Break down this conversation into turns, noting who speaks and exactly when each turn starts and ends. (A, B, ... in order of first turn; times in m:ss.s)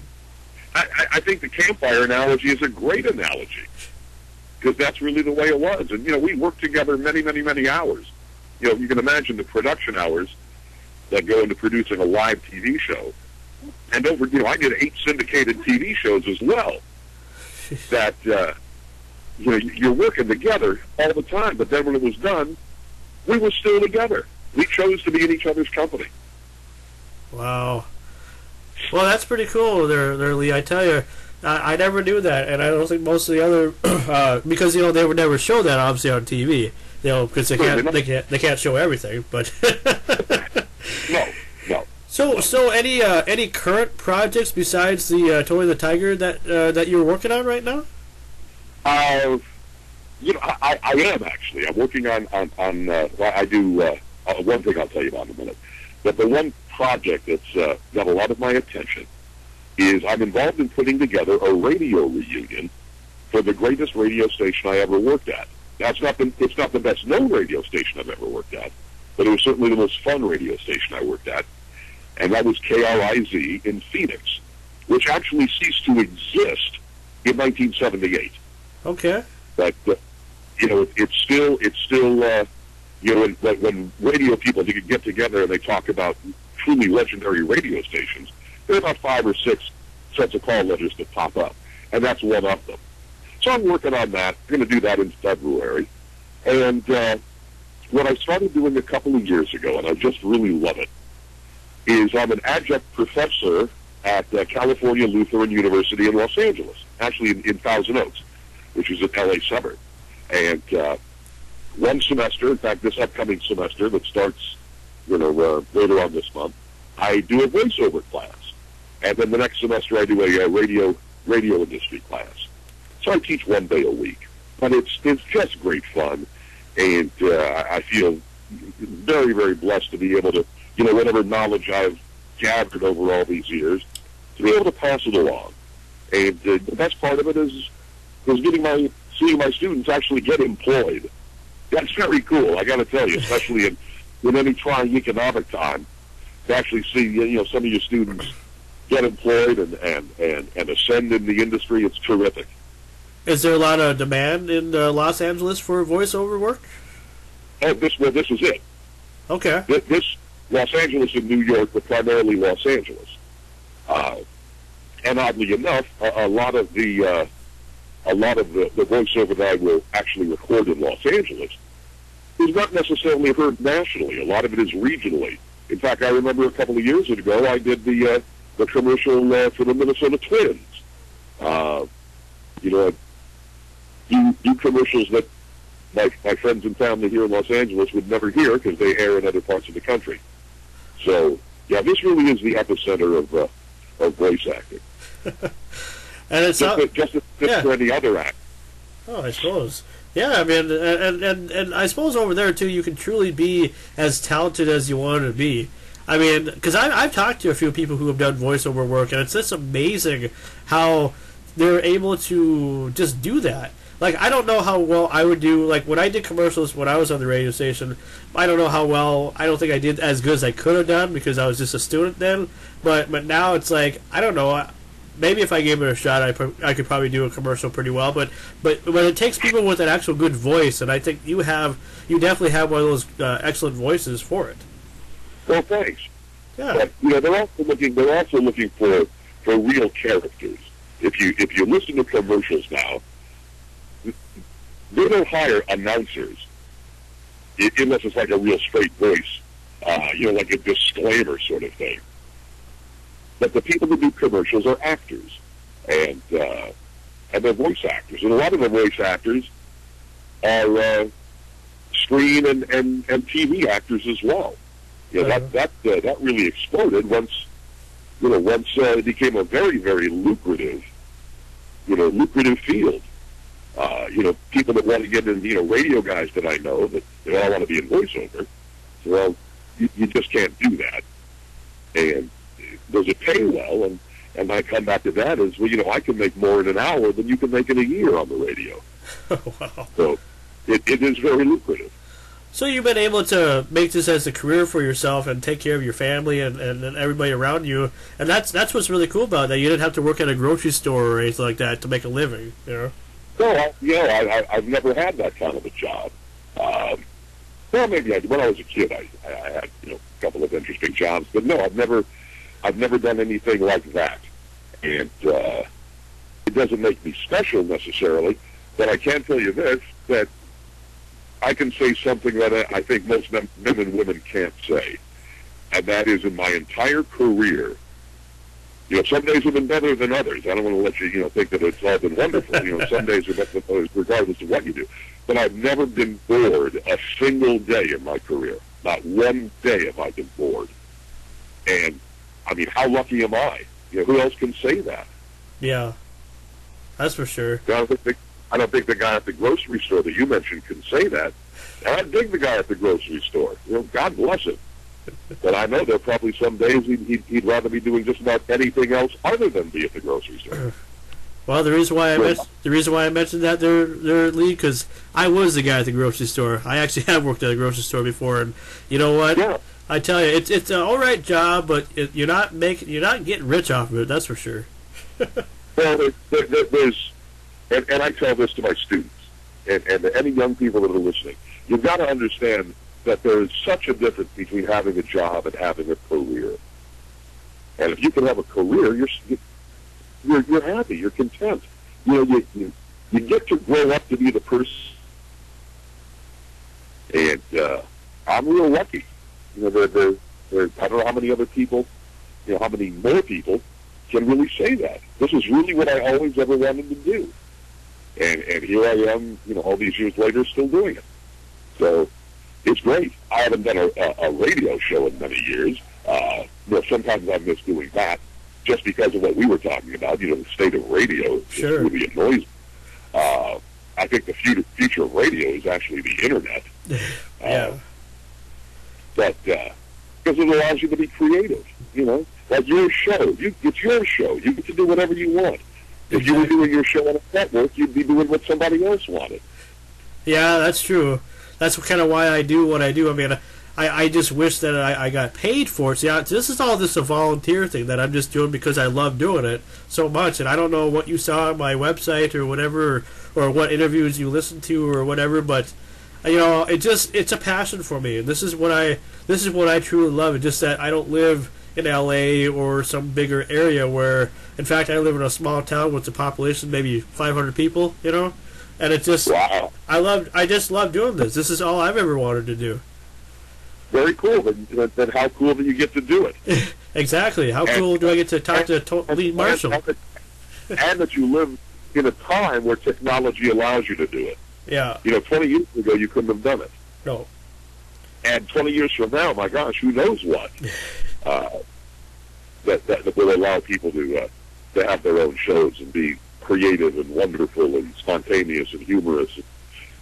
0:00.7-0:03.7 A
0:04.6-0:10.3 A
0:11.1-0:13.1 A
0:13.9-0:16.8 A
0:17.9-0:18.5 A
0:19.4-0:22.6 A
0:23.2-0:26.1 A
0:27.3-0:27.9 B
0:28.9-0:41.0 B
0:37.6-0:38.0 A
0:41.1-0:42.5 A
0:42.1-0:47.8 B
0:48.8-0:49.4 A
0:50.2-0:59.1 A
0:59.8-1:02.7 A
1:03.3-1:11.4 A
1:12.2-1:18.4 A
1:18.8-1:19.2 B
1:19.6-1:20.0 A
1:20.6-1:22.5 A
1:23.0-1:32.8 A
1:33.4-1:35.9 A
1:36.4-1:37.2 A
1:37.9-1:40.9 A
1:41.9-1:48.2 A
1:48.7-1:49.8 A
1:50.3-1:51.0 A
1:51.7-2:02.5 A
2:03.0-2:13.8 A
2:14.4-2:15.5 A
2:16.1-2:17.7 A
2:18.2-2:21.1 A
2:21.7-2:25.9 A
2:26.5-2:28.3 A
2:28.9-2:32.5 A
2:33.2-2:36.7 B
2:37.6-2:38.6 A
2:39.3-2:39.7 B
2:39.7-2:43.2 A
2:43.9-2:44.2 A
2:45.0-2:47.3 A
2:48.0-2:51.6 A
2:52.4-3:00.8 A
3:01.4-3:01.9 A
3:02.6-3:02.9 A
3:04.1-3:05.3 A
3:05.9-3:10.2 A
3:11.0-3:14.8 A
3:16.3-3:16.8 B
3:16.6-3:18.4 A
3:19.1-3:54.6 B
3:55.5-3:56.1 A
3:56.6-3:56.8 B
3:56.7-4:03.0 A
4:04.9-4:06.4 A
4:07.6-4:12.0 A
4:13.4-4:16.7 A
4:17.3-4:19.5 A
4:20.4-4:21.1 A
4:21.9-4:24.6 A
4:25.1-4:27.5 A
4:28.2-4:30.8 A
4:31.9-4:33.0 A
4:33.8-4:38.5 A
4:39.0-4:41.0 A
4:41.9-4:48.8 A
4:49.3-4:49.9 B
4:50.0-4:51.9 A
4:52.5-5:02.9 B
5:03.4-5:07.0 A
5:07.7-5:12.0 A
5:12.6-5:14.2 A
5:14.8-5:15.6 A
5:16.4-5:20.3 A
5:21.4-5:25.0 A
5:25.7-5:27.8 A
5:28.9-5:40.7 A
5:41.7-5:45.1 A
5:45.6-5:45.9 B
5:47.0-5:47.6 B
5:47.6-5:54.6 A
5:55.4-6:00.7 A
6:01.5-6:14.7 B
6:02.2-6:02.4 A
6:09.3-6:09.6 A
6:15.8-6:17.1 A
6:17.7-6:26.6 A
6:27.8-6:29.4 A
6:30.2-6:34.9 A
6:37.1-6:41.9 A
6:42.4-6:47.3 A
6:48.2-6:51.0 A
6:51.8-6:52.1 A
6:52.6-7:02.4 A
7:01.5-7:01.9 B
7:03.1-7:06.7 A
7:07.0-7:07.8 B
7:07.4-7:07.7 A
7:09.2-7:09.7 A
7:10.2-7:19.4 A
7:16.1-7:16.5 B
7:20.2-7:49.3 B
7:49.2-7:49.7 A
7:49.9-7:52.8 B
7:53.9-7:56.4 A
7:56.5-7:59.8 B
7:57.6-8:00.0 A
8:00.7-8:04.4 A
8:04.7-8:05.0 B
8:05.0-8:06.7 A
8:08.2-8:10.5 A
8:11.2-8:11.6 A
8:12.6-8:19.4 A